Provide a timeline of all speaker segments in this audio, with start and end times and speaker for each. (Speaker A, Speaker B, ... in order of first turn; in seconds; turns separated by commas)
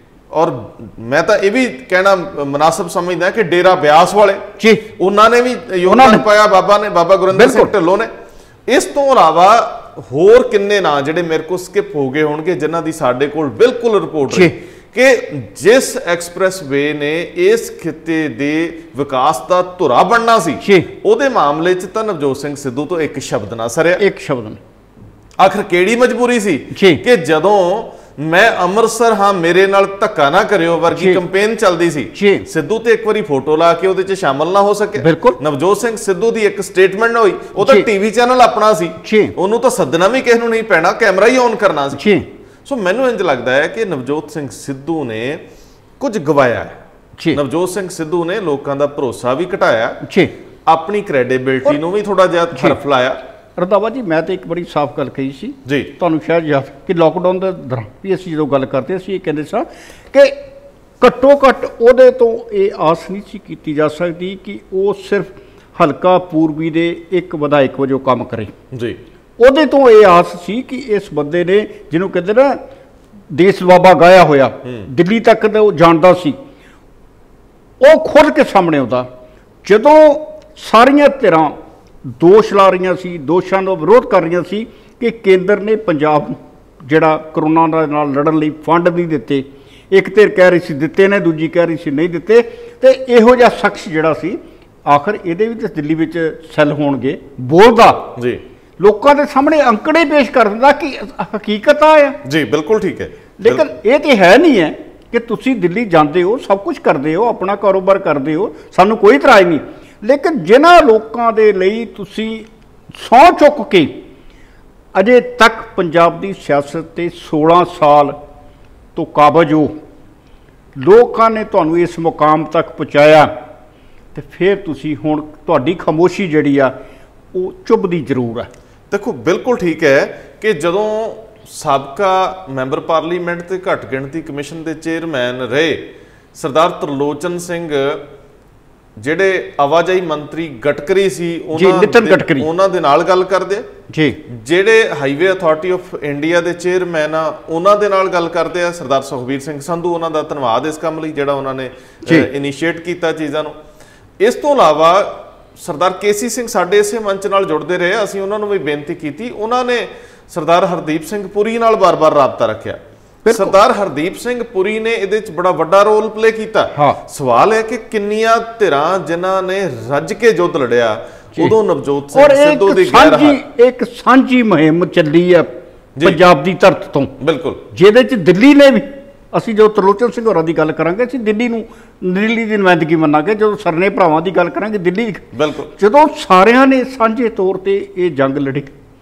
Speaker A: 0.3-8.1, Speaker B: 4.6-4.8, Speaker B: 5.9-6.2, Speaker B: 7.3-7.7, Speaker A: 8.7-24.0, Speaker B: 14.3-14.6, Speaker B: 20.6-20.9, Speaker B: 24.0-24.6, Speaker A: 25.4-42.0, Speaker B: 26.7-27.0, Speaker B: 30.9-31.2, Speaker B: 32.1-32.5, Speaker B: 35.0-35.4, Speaker B: 37.6-37.9, Speaker B: 39.0-39.3, Speaker B: 41.9-42.2, Speaker A: 42.6-45.4, Speaker A: 46.0-46.8, Speaker A: 47.3-50.0, Speaker B: 50.0-50.3, Speaker A: 50.7-53.2, Speaker B: 53.6-60.4, Speaker A: 55.6-55.9, Speaker B: 61.0-68.5, Speaker A: 68.7-69.0, Speaker B: 69.4-72.6, Speaker B: 73.3-76.4, Speaker B: 77.8-79.1, Speaker B: 79.6-98.1, Speaker A: 98.2-98.4, Speaker B: 98.8-102.2, Speaker A: 102.2-103.6, Speaker B: 103.4-113.9, Speaker B: 114.9-118.2, Speaker B: 118.9-119.7, Speaker B: 120.8-123.3, Speaker B: 124.1-126.7, Speaker B: 127.3-128.5, Speaker A: 128.9-138.1, Speaker A: 139.0-143.7, Speaker B: 141.5-142.5, Speaker B: 143.9-144.2, Speaker A: 144.3-153.6, Speaker A: 154.2-173.4, Speaker B: 163.2-163.6, Speaker B: 166.7-167.0, Speaker B: 172.1-175.5, Speaker A: 175.9-176.2, Speaker B: 176.0-177.1, Speaker A: 177.2-177.6, Speaker B: 177.7-188.7, Speaker A: 185.3-185.7